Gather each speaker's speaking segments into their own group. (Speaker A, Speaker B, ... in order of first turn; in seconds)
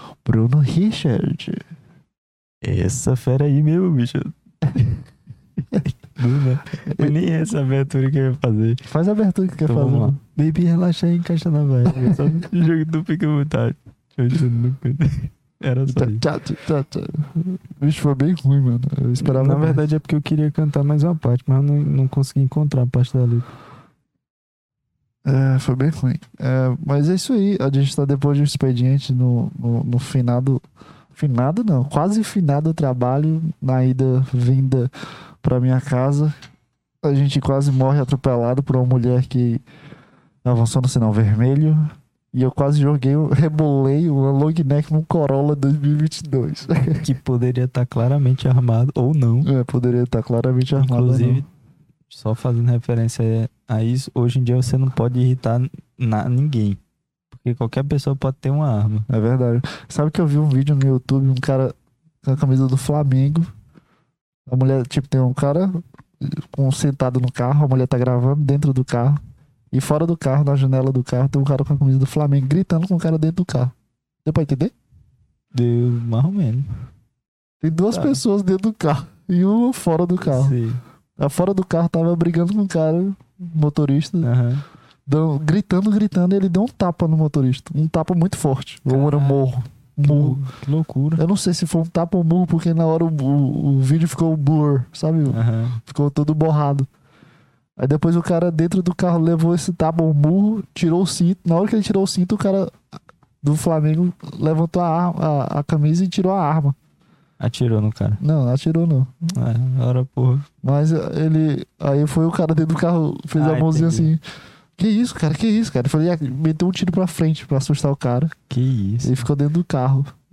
Speaker A: 0.2-1.6, 6.8-7.1, 8.9-10.2, 15.9-19.8, 25.2-30.6, 31.1-34.9, 35.4-36.4, 37.0-39.6, 40.4-47.1, 49.4-51.4, 59.1-63.5, 64.5-69.2, 69.7-73.7, 74.2-74.7, 77.6-80.6, 81.2-84.3, 85.1-90.4, 91.2-96.9, 97.8-102.8, 103.4-106.8, 108.2-109.3, 110.6-114.2, 114.8-118.3, 119.0-120.1
Speaker B: 2.6-5.0, 5.8-8.8, 9.7-16.2, 19.2-23.5, 47.0-49.5, 50.8-51.5, 52.1-56.8, 57.3-59.1, 75.5-76.7, 77.9-78.2, 80.2-80.8, 84.2-84.6, 88.9-89.4, 90.0-91.2, 95.3-95.8, 107.4-108.2, 109.3-110.5, 113.3-114.1, 118.5-119.2